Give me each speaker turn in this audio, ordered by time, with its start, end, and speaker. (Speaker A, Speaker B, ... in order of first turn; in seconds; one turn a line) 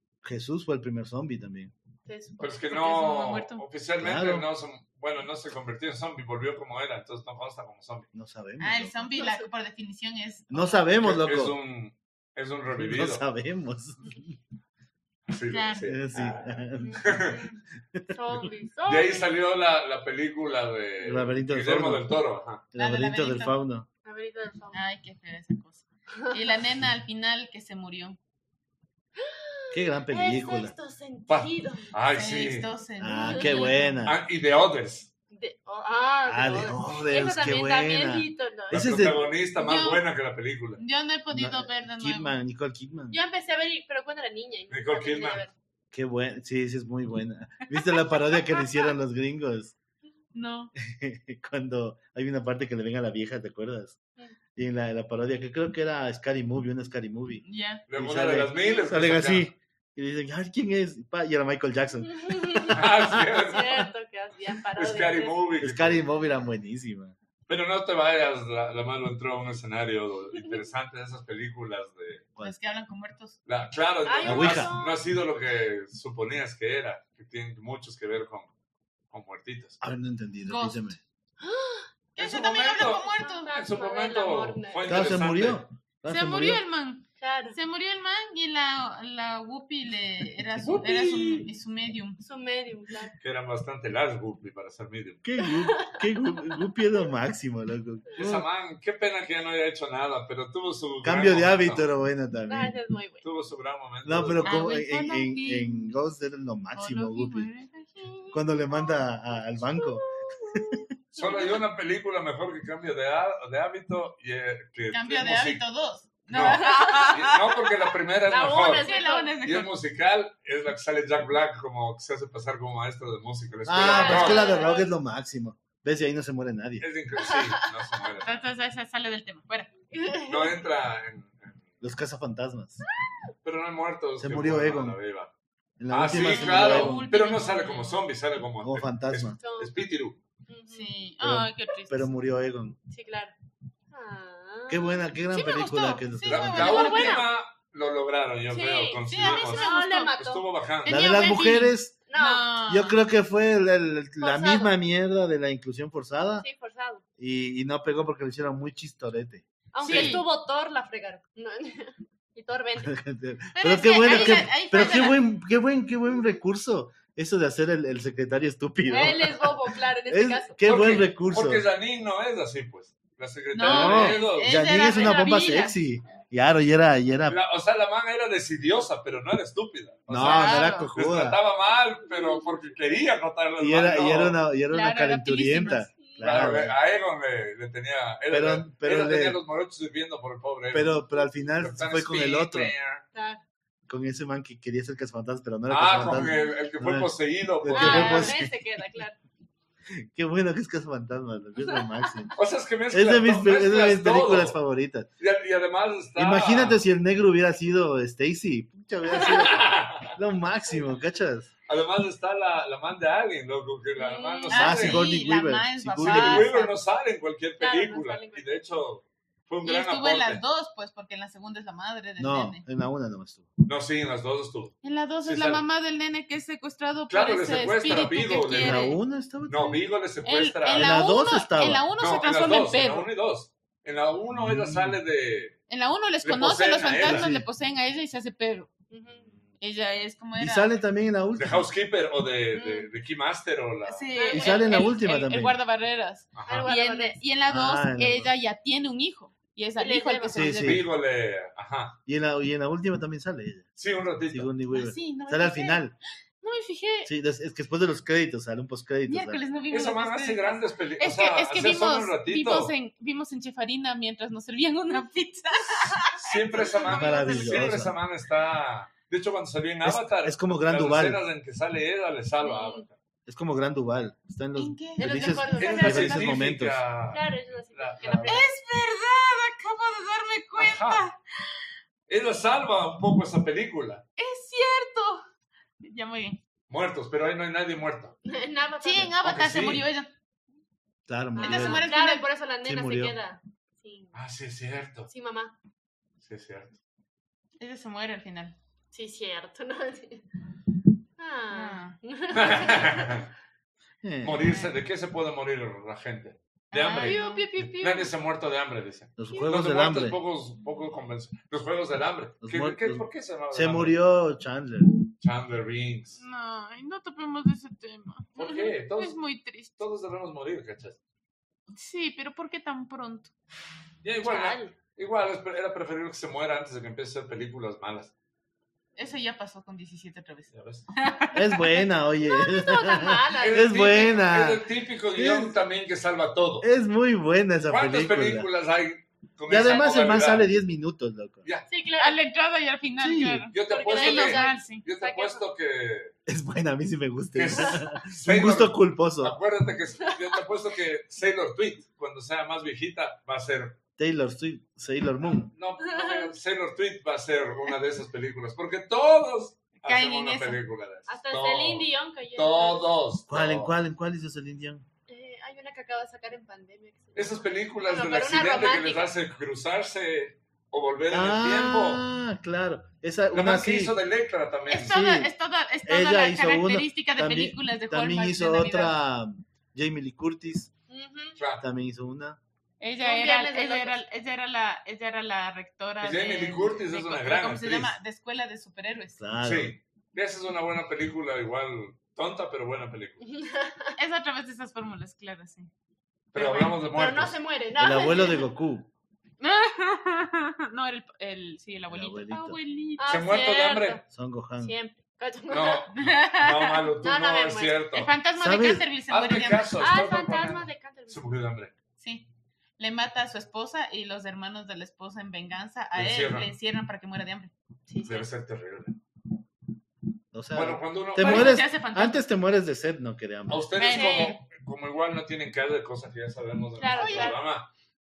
Speaker A: 0.2-1.7
Speaker B: 2.0-2.5
Speaker C: 2.4-8.1
Speaker D: 2.7-3.6
Speaker A: 4.0-4.5
Speaker A: 8.1-9.0
Speaker D: 8.6-10.8
Speaker B: 9.1-9.5
Speaker A: 10.5-11.6
Speaker C: 11.0-13.2
Speaker A: 12.7-14.3
Speaker C: 15.3-17.4
Speaker D: 15.5-15.9
Speaker A: 15.8-17.2
Speaker B: 16.8-17.5
Speaker B: 18.1-19.3
Speaker C: 18.9-22.6
Speaker A: 21.0-22.1
Speaker A: 22.7-23.9
Speaker D: 22.8-23.6
Speaker B: 24.0-24.8
Speaker D: 24.7-28.2
Speaker B: 26.2-26.5
Speaker B: 29.2-31.9
Speaker A: 29.7-30.7
Speaker C: 31.3-32.7
Speaker D: 32.1-34.1
Speaker A: 33.0-34.2
Speaker B: 33.2-33.6
Speaker C: 34.0-35.1
Speaker B: 35.3-39.0
Speaker A: 36.2-39.2
Speaker C: 38.7-40.8
Speaker D: 39.6-40.0
Speaker D: 40.8-42.4
Speaker A: 41.3-43.2
Speaker B: 43.1-45.5
Speaker C: 44.7-45.4
Speaker A: 45.9-49.7
Speaker D: 50.3-50.7
Speaker A: 50.8-54.0
Speaker A: 54.5-63.8
Speaker D: 57.4-57.8
Speaker C: 57.9-59.5
Speaker B: 62.2-62.8
Speaker C: 62.7-63.8
Speaker B: 63.4-65.4
Speaker C: 64.7-66.0
Speaker A: 65.6-67.1
Speaker C: 67.5-72.2
Speaker D: 72.4-73.4
Speaker C: 73.5-78.5
Speaker B: 74.0-75.0
Speaker A: 74.2-74.7
Speaker C: 79.1-79.8
Speaker A: 79.8-81.0
Speaker D: 80.5-80.9
Speaker B: 81.4-81.9
Speaker D: 82.2-83.5
Speaker C: 82.2-85.6
Speaker B: 82.7-85.2
Speaker A: 84.8-86.6
Speaker D: 86.1-92.2
Speaker B: 87.2-87.6
Speaker C: 90.6-91.5
Speaker B: 92.2-93.1
Speaker C: 93.2-95.2
Speaker A: 95.2-98.5
Speaker B: 95.4-96.7
Speaker C: 98.2-101.9
Speaker A: 101.0-102.7
Speaker B: 102.5-103.2
Speaker C: 103.2-104.7
Speaker A: 104.0-107.5
Speaker D: 104.4-105.9
Speaker D: 106.7-108.2
Speaker B: 108.2-111.6
Speaker A: 108.3-110.8
Speaker C: 111.1-115.6
Speaker D: 114.9-117.7
Speaker C: 116.3-118.9
Speaker B: 116.6-117.1
Speaker B: 118.2-119.3
Speaker D: 118.8-119.7
Speaker C: 119.4-124.5
Speaker A: 123.7-126.8
Speaker B: 123.8-124.9
Speaker D: 124.0-124.4
Speaker C: 126.8-128.4
Speaker D: 128.2-129.7
Speaker B: 129.9-130.6
Speaker C: 130.3-131.6
Speaker A: 131.8-132.8
Speaker C: 133.4-135.3
Speaker A: 134.2-135.0
Speaker A: 135.8-137.1
Speaker C: 135.9-140.2
Speaker D: 136.1-138.0
Speaker A: 138.6-139.4
Speaker B: 139.4-139.9
Speaker B: 140.5-140.9
Speaker D: 140.7-142.1
Speaker A: 141.2-142.8
Speaker B: 142.9-143.3
Speaker B: 143.9-145.1
Speaker A: 144.7-146.8
Speaker D: 145.3-147.3
Speaker C: 146.2-151.0
Speaker B: 146.5-147.3
Speaker D: 148.5-150.1
Speaker B: 148.5-150.4
Speaker D: 150.8-153.0
Speaker A: 150.8-151.9
Speaker B: 152.1-152.5
Speaker A: 152.7-156.4
Speaker B: 154.2-154.7
Speaker B: 156.4-157.0
Speaker A: 157.2-159.4
Speaker B: 159.7-163.0
Speaker D: 159.8-160.2
Speaker A: 162.8-171.6
Speaker D: 163.5-165.2
Speaker B: 164.1-164.4
Speaker B: 168.9-170.6
Speaker C: 170.6-174.6
Speaker D: 173.5-175.8
Speaker A: 173.6-177.4
Speaker B: 174.8-175.5
Speaker C: 177.2-184.4
Speaker A: 180.1-181.4
Speaker D: 180.2-180.9
Speaker B: 182.2-182.4
Speaker A: 183.6-186.8
Speaker D: 184.7-185.9
Speaker B: 186.0-186.6
Speaker C: 186.2-191.0
Speaker A: 188.3-189.4
Speaker A: 190.7-192.7
Speaker C: 191.6-193.0
Speaker B: 193.1-193.4
Speaker A: 193.9-198.8
Speaker C: 195.7-198.4
Speaker B: 197.7-199.2
Speaker A: 199.9-202.3
Speaker B: 201.6-202.3
Speaker C: 202.3-204.6
Speaker A: 202.9-205.1
Speaker C: 205.2-206.8
Speaker A: 206.2-211.5
Speaker C: 209.1-210.1
Speaker C: 211.7-215.0
Speaker B: 214.0-214.7
Speaker D: 214.5-216.8
Speaker A: 214.5-216.5
Speaker C: 216.0-220.4
Speaker B: 217.6-218.5
Speaker D: 219.6-222.6
Speaker A: 222.2-223.5
Speaker C: 223.7-225.6
Speaker D: 224.8-229.0
Speaker C: 227.1-228.9
Speaker A: 228.5-229.8
Speaker C: 229.5-231.0
Speaker D: 230.2-233.1
Speaker A: 230.7-231.9
Speaker C: 232.0-235.6
Speaker A: 234.3-235.0
Speaker D: 235.7-238.7
Speaker C: 236.2-237.3
Speaker A: 237.0-237.5
Speaker B: 238.9-239.4
Speaker D: 239.6-240.7
Speaker A: 240.4-241.7
Speaker C: 241.3-244.1
Speaker B: 242.5-242.9
Speaker D: 243.8-250.8
Speaker B: 244.1-244.9
Speaker A: 244.3-245.6
Speaker C: 246.3-246.7
Speaker B: 246.4-247.2
Speaker A: 247.5-248.3
Speaker B: 249.8-250.5
Speaker A: 250.3-250.9
Speaker C: 250.6-252.0
Speaker A: 252.1-253.7
Speaker C: 253.8-254.5
Speaker A: 254.3-255.9
Speaker D: 254.7-255.8
Speaker D: 256.4-257.1
Speaker A: 257.0-259.4
Speaker D: 259.1-267.8
Speaker C: 259.7-262.7
Speaker C: 266.1-272.9
Speaker A: 266.8-267.9
Speaker A: 269.8-271.2
Speaker B: 272.4-272.8
Speaker A: 273.2-276.8
Speaker D: 274.6-276.3
Speaker B: 275.0-276.2
Speaker C: 275.6-278.5
Speaker B: 277.1-278.5
Speaker D: 278.2-281.2
Speaker C: 280.6-281.0
Speaker C: 282.1-284.0
Speaker D: 284.2-285.2
Speaker D: 285.8-286.4
Speaker C: 286.7-288.2
Speaker B: 288.2-289.2
Speaker D: 288.8-290.1
Speaker C: 289.2-289.9
Speaker A: 291.1-291.9
Speaker B: 291.4-294.1
Speaker D: 291.4-292.3
Speaker A: 292.6-293.1
Speaker C: 294.1-295.1
Speaker B: 295.1-295.6
Speaker C: 296.2-296.8
Speaker D: 297.6-298.6
Speaker B: 298.9-300.2
Speaker B: 301.2-303.3
Speaker D: 301.5-302.0
Speaker C: 302.3-303.3
Speaker A: 304.0-304.5
Speaker C: 304.2-314.0
Speaker D: 304.4-304.7
Speaker D: 306.7-307.4
Speaker B: 306.9-308.1
Speaker A: 309.2-310.2
Speaker A: 312.4-315.0
Speaker C: 315.2-316.2
Speaker D: 316.1-318.3
Speaker C: 318.3-319.2
Speaker B: 318.4-318.7
Speaker D: 318.9-319.8
Speaker C: 319.8-321.0
Speaker D: 321.7-323.3
Speaker C: 324.0-328.1
Speaker B: 324.2-324.7
Speaker D: 328.9-331.8
Speaker C: 330.5-330.9
Speaker A: 331.3-335.6
Speaker B: 332.2-334.0
Speaker C: 333.4-336.7
Speaker A: 336.6-338.5
Speaker C: 337.7-340.5
Speaker A: 339.5-341.4
Speaker B: 341.7-342.2
Speaker D: 342.0-344.8
Speaker A: 343.0-343.5
Speaker C: 343.5-346.1
Speaker B: 343.6-345.4
Speaker A: 346.3-349.4
Speaker C: 347.3-353.8
Speaker B: 347.5-347.8
Speaker A: 354.0-355.5
Speaker C: 355.4-363.7
Speaker B: 355.8-356.3
Speaker D: 359.8-360.6
Speaker B: 361.1-362.9
Speaker A: 363.3-364.8
Speaker B: 365.1-369.1
Speaker C: 367.1-372.1
Speaker A: 371.1-373.9
Speaker C: 373.3-375.0
Speaker D: 374.7-379.0
Speaker A: 374.8-375.3
Speaker A: 375.9-380.7
Speaker B: 380.9-381.4
Speaker C: 381.4-381.6
Speaker A: 381.6-382.4
Speaker D: 382.8-389.2
Speaker B: 383.0-384.0
Speaker C: 386.0-387.9
Speaker A: 389.2-389.8
Speaker C: 389.4-393.2
Speaker B: 393.2-393.9
Speaker D: 394.0-395.7
Speaker C: 396.3-397.4
Speaker D: 396.3-396.8
Speaker B: 396.8-398.4
Speaker A: 397.8-398.9
Speaker D: 399.4-403.2
Speaker A: 401.9-402.6
Speaker B: 403.0-404.0
Speaker C: 403.1-404.0
Speaker A: 404.1-404.8
Speaker B: 404.6-405.9
Speaker C: 405.5-408.1
Speaker D: 405.9-406.9
Speaker B: 407.0-407.9
Speaker D: 407.9-409.7
Speaker A: 408.4-408.9
Speaker C: 409.1-411.7
Speaker B: 409.8-411.3
Speaker D: 412.0-412.3
Speaker D: 412.8-417.5
Speaker C: 415.9-416.5
Speaker B: 417.9-418.3
Speaker C: 418.0-419.0
Speaker A: 420.3-423.7
Speaker C: 420.5-421.6
Speaker D: 421.2-422.2
Speaker C: 423.5-427.7
Speaker D: 423.7-424.4
Speaker B: 423.9-424.3
Speaker B: 426.8-427.4
Speaker D: 426.9-427.4